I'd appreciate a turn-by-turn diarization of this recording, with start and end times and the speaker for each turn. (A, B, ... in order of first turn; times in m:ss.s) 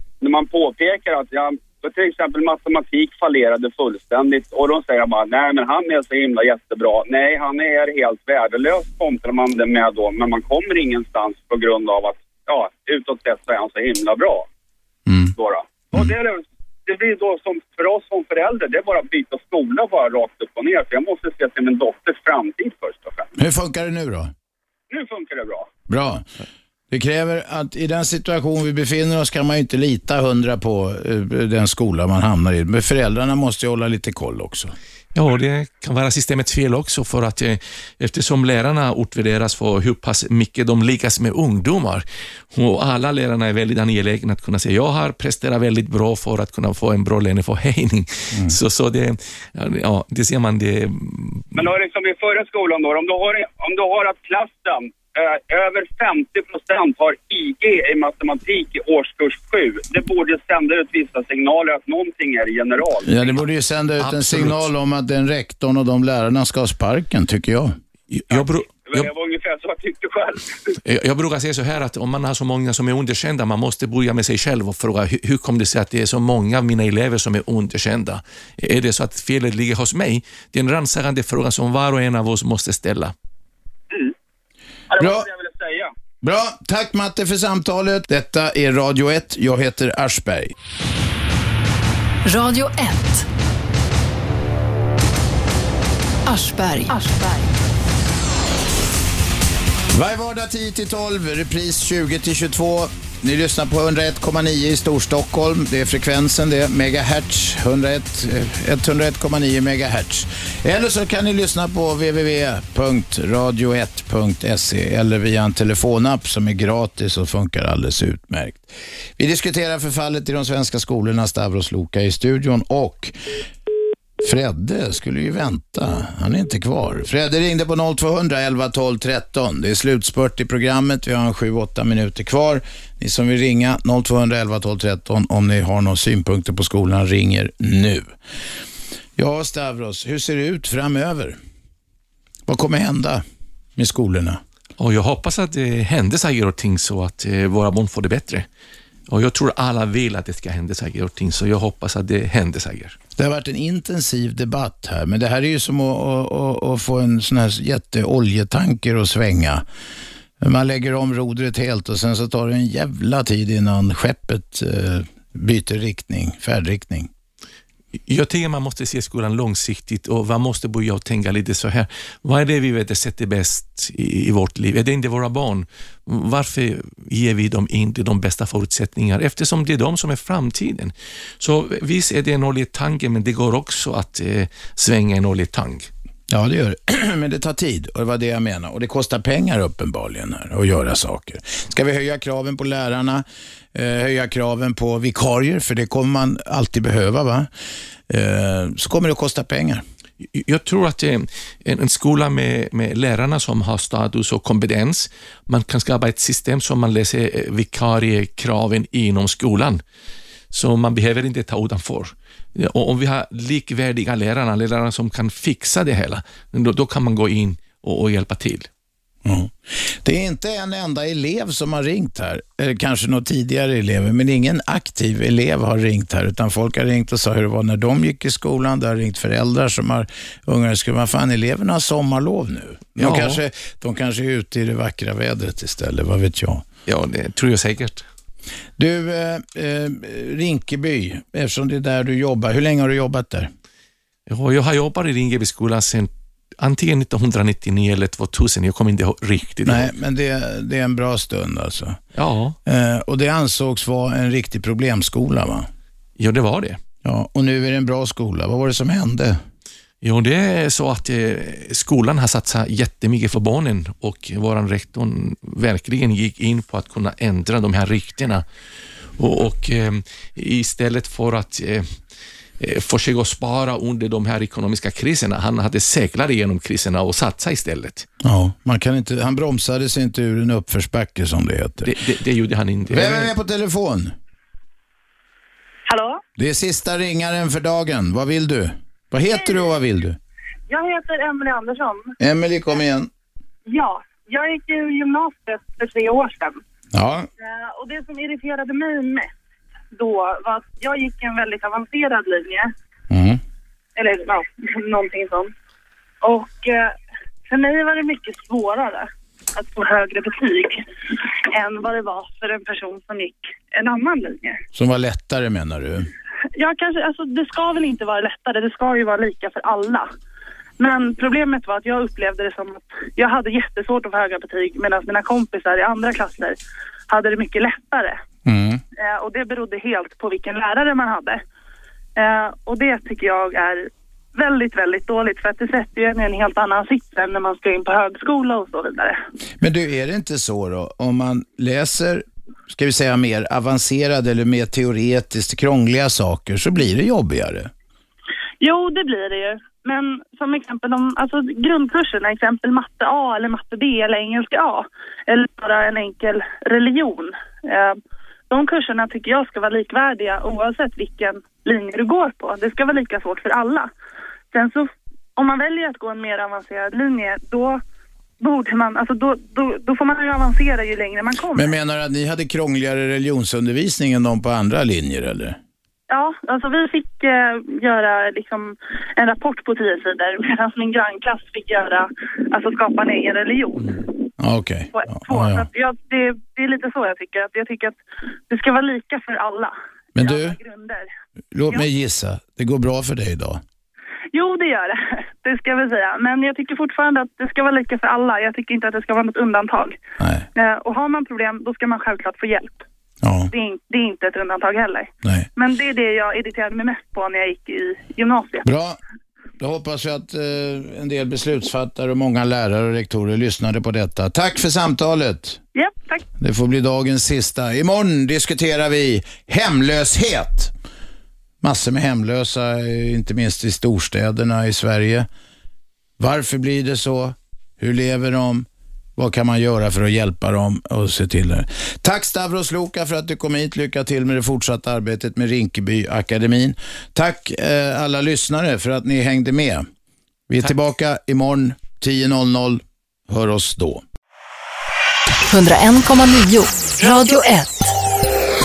0:00.2-0:14.5 A
0:15.1-0:15.3 B
0:15.4-0:23.3 A
0:23.4-0:24.3 B
0:24.9-0:25.7 A
0:25.9-0:26.3 B
0:26.9-0:34.7 B
0:35.1-0:51.5 C
0:51.5-1:03.4 A
1:03.1-1:07.7 B
1:04.0-1:04.7 C
1:08.1-1:09.1 C
1:08.3-1:10.7 A
1:10.8-1:23.1 C
1:24.9-1:25.9 A
1:25.0-1:25.2 B
1:26.2-1:30.5 B
1:32.2-1:33.3 D
1:36.2-1:37.7 D
1:39.9-2:03.1 B
2:04.2-2:18.1 B
2:19.2-2:21.4 B
2:22.5-2:23.2 B
2:23.8-2:24.4 B
2:24.8-2:28.4 C
2:29.1-2:33.0 C
2:33.2-2:39.6 B
2:40.4-2:47.1 B
2:48.1-3:05.9 C
3:06.3-3:17.5 B
3:18.1-3:19.8 B
3:20.2-3:29.8 C
3:30.5-3:38.7 C
3:39.2-3:56.6 B
3:53.0-3:53.4 C
3:56.8-3:58.1 C
3:58.8-4:03.5 B
4:04.3-4:09.9 C
4:09.6-4:12.0 B
4:12.2-4:12.6 C
4:12.6-4:15.7 B
4:16.2-4:16.8 C
4:17.0-4:19.4 B
4:20.0-4:28.4 C
4:29.2-4:32.0 C
4:32.6-4:38.1 C
4:38.2-4:41.9 B
4:41.8-4:43.3 C
4:42.9-4:44.1 B
4:45.9-4:46.2 E
4:46.4-4:50.2 B
4:49.3-4:49.7 E
4:50.7-4:52.2 E
4:52.2-4:53.1 B
4:53.7-4:56.6 E
4:56.9-4:57.3 B
4:57.4-4:59.3 E
4:59.9-5:02.7 E
5:03.1-5:03.4 B
5:04.0-5:05.5 E
5:06.2-5:06.9 E
5:07.5-5:14.6 E
5:14.7-5:16.1 B
5:16.5-5:20.1 E
5:20.8-5:26.6 E
5:27.1-5:28.2 E
5:28.4-5:28.8 B
5:29.0-5:31.4 E
5:32.2-5:39.2 E
5:39.6-5:47.7 B
5:48.6-5:58.0 E
5:58.5-6:03.9 E
6:04.5-6:07.8 E
6:08.4-6:11.7 E
6:11.5-6:15.6 B
6:16.1-6:24.1 E
6:24.4-6:25.6 B
6:24.9-6:31.1 E
6:30.2-6:30.6 B
6:31.5-6:33.6 B
6:34.3-6:40.0 E
6:40.2-6:40.4 B
6:40.5-6:42.8 E
6:43.2-6:43.5 B
6:43.5-6:48.6 E
6:48.6-6:49.0 B
6:49.6-6:55.6 B
6:55.7-6:56.2 E
6:56.4-7:00.7 B
7:01.6-7:05.3 B
7:06.2-7:19.9 B
7:20.5-7:24.0 B
7:25.5-7:27.9 D